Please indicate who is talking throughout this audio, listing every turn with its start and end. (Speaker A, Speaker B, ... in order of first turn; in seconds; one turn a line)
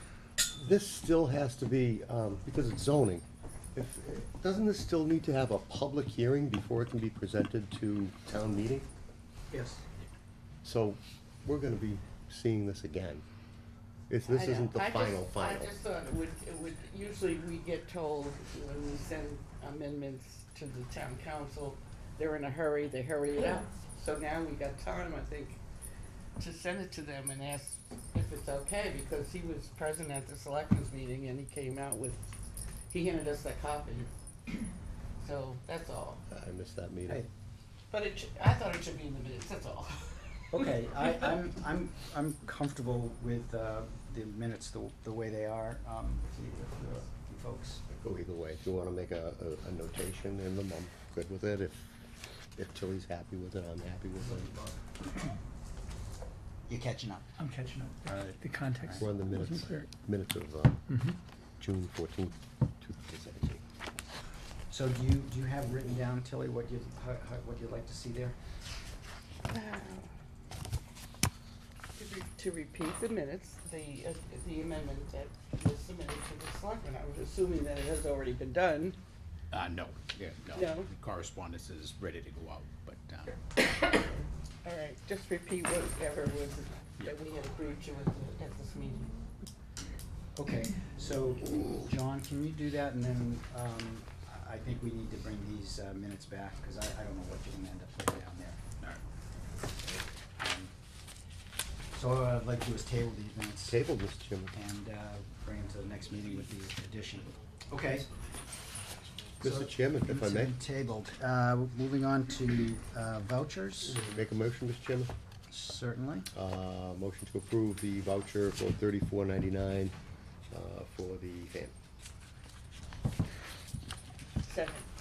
Speaker A: 0.5-8.9
Speaker B: 9.5-9.8
Speaker A: 10.6-13.2
Speaker A: 14.1-15.7
Speaker C: 14.2-25.6
Speaker C: 26.4-32.3
Speaker C: 32.9-34.1
Speaker C: 35.2-36.2
Speaker A: 36.3-37.2
Speaker C: 37.9-40.2
Speaker B: 40.5-47.8
Speaker A: 47.9-51.9
Speaker A: 52.5-54.5
Speaker B: 54.2-54.8
Speaker B: 56.7-57.3
Speaker D: 57.4-59.9
Speaker B: 58.1-59.0
Speaker A: 58.9-60.8
Speaker D: 60.9-61.2
Speaker A: 61.6-63.6
Speaker B: 64.7-68.3
Speaker C: 69.5-70.1
Speaker C: 72.0-79.0
Speaker E: 79.5-83.4
Speaker C: 80.5-80.9
Speaker C: 84.6-89.2
Speaker B: 90.3-98.6
Speaker B: 100.4-100.7
Speaker B: 101.9-103.8
Speaker A: 103.7-104.5
Speaker B: 104.5-108.1
Speaker A: 109.4-110.5
Speaker B: 109.4-114.0
Speaker A: 113.9-115.1
Speaker B: 115.5-116.3
Speaker A: 116.3-119.9
Speaker A: 120.5-121.7
Speaker C: 124.4-124.9